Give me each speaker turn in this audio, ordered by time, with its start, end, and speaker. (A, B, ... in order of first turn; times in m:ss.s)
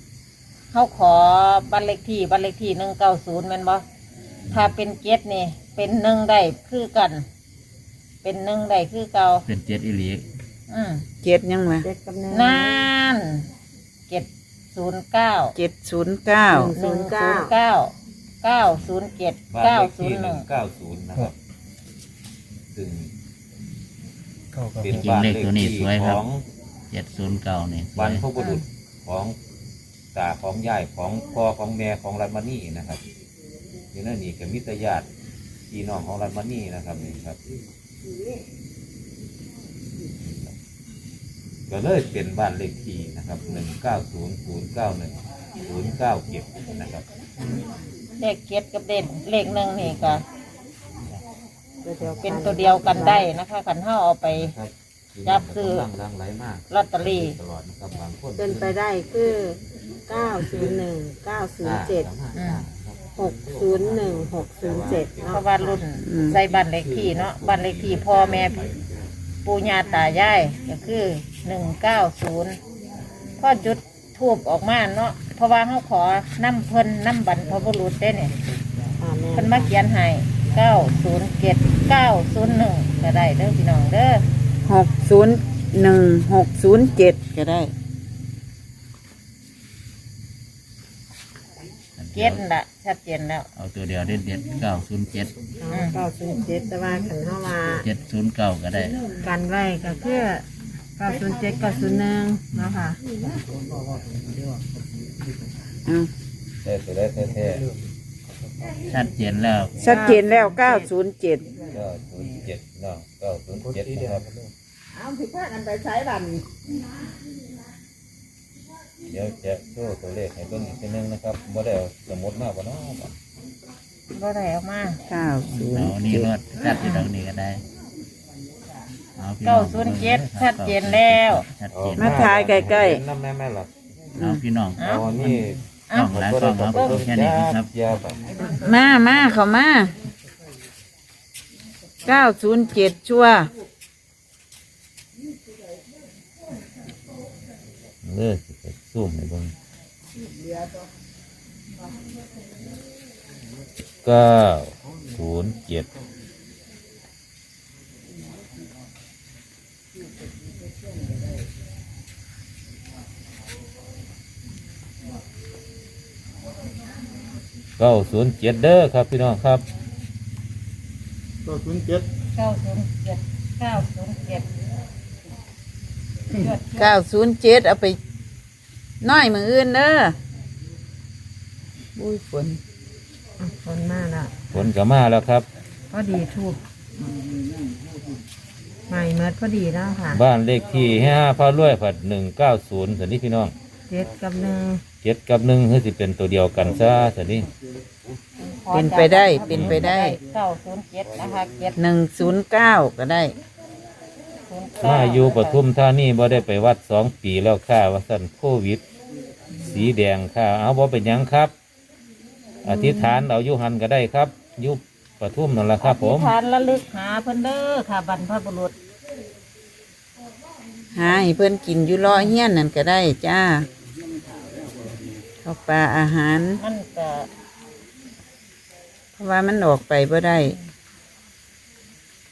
0:00.7-0:03.8 A
0:04.5-0:07.2 A
0:08.2-0:09.4 A
0:09.4-0:10.2 B
0:10.7-0:11.0 A
0:11.2-0:11.9 C
0:11.8-0:12.9 D
0:12.3-0:13.5 A
0:14.1-0:15.5 A
0:15.5-0:16.7 C
0:16.5-0:17.5 D
0:16.8-0:20.4 A
0:19.5-0:21.4 E
0:22.7-0:23.1 E
0:24.8-0:26.4 E
0:24.9-0:26.2 B
0:26.9-0:28.3 B
0:28.0-0:29.4 E
0:28.4-0:28.6 A
0:30.1-0:33.0 E
0:33.9-0:35.1 E
0:35.7-0:37.4 E
0:40.1-0:40.5 E
0:41.7-0:47.1 E
0:48.2-0:50.2 A
0:51.8-0:53.3 D
0:52.2-0:54.5 A
0:54.3-0:58.8 E
0:55.2-0:55.9 A
0:56.7-0:57.4 A
0:58.4-1:02.1 D
1:00.4-1:00.8 E
1:01.6-1:05.7 E
1:02.3-1:02.6 A
1:03.2-1:05.8 D
1:05.3-1:08.6 A
1:06.0-1:06.4 C
1:06.3-1:08.9 E
1:09.4-1:12.6 A
1:13.4-1:18.4 A
1:19.0-1:19.7 D
1:19.4-1:24.2 A
1:24.7-1:27.7 C
1:32.0-1:32.4 B
1:32.2-1:33.5 A
1:33.6-1:35.3 B
1:35.6-1:37.8 D
1:35.7-1:36.0 A
1:37.7-1:39.0 B
1:39.2-1:40.4 D
1:41.0-1:43.0 D
1:42.6-1:42.8 B
1:46.6-1:47.7 E
1:48.8-1:49.9 B
1:49.8-1:51.5 C
1:49.8-1:50.9 D
1:51.7-1:54.5 E
1:54.9-1:56.6 D
1:59.0-2:03.2 E
2:04.1-2:05.0 A
2:05.1-2:06.3 C
2:05.7-2:07.6 B
2:06.8-2:07.1 A
2:09.2-2:12.2 B
2:09.4-2:11.5 A
2:11.7-2:13.7 E
2:12.0-2:13.0 C
2:14.2-2:15.4 B
2:14.8-2:15.1 A
2:14.8-2:18.2 E
2:15.9-2:16.2 A
2:15.9-2:17.7 B
2:16.7-2:17.0 A
2:18.5-2:19.9 C
2:22.0-2:23.5 C
2:28.0-2:29.5 E
2:34.0-2:35.9 E
2:47.8-2:49.6 E
2:51.5-2:52.0 E
2:52.3-2:54.5 A
2:56.3-2:56.9 A
2:56.8-2:58.0 C
2:59.0-3:00.2 C
3:02.0-3:02.6 C
3:03.4-3:04.6 D
3:04.5-3:05.5 E
3:05.9-3:06.6 D
3:08.9-3:10.2 D
3:10.1-3:13.5 E
3:13.9-3:14.8 D
3:15.0-3:17.5 E
3:18.4-3:21.8 A
3:18.7-3:20.2 C
3:19.5-3:19.8 E
3:21.8-3:23.4 C
3:24.5-3:25.6 A
3:24.8-3:28.8 E
3:29.6-3:31.5 E
3:32.6-3:33.2 A
3:32.6-3:36.3 E
3:35.8-3:38.8 A
3:41.0-3:43.7 C
3:42.1-3:42.3 A
3:45.4-3:46.6 C
3:46.6-3:47.3 A
3:49.2-3:50.6 C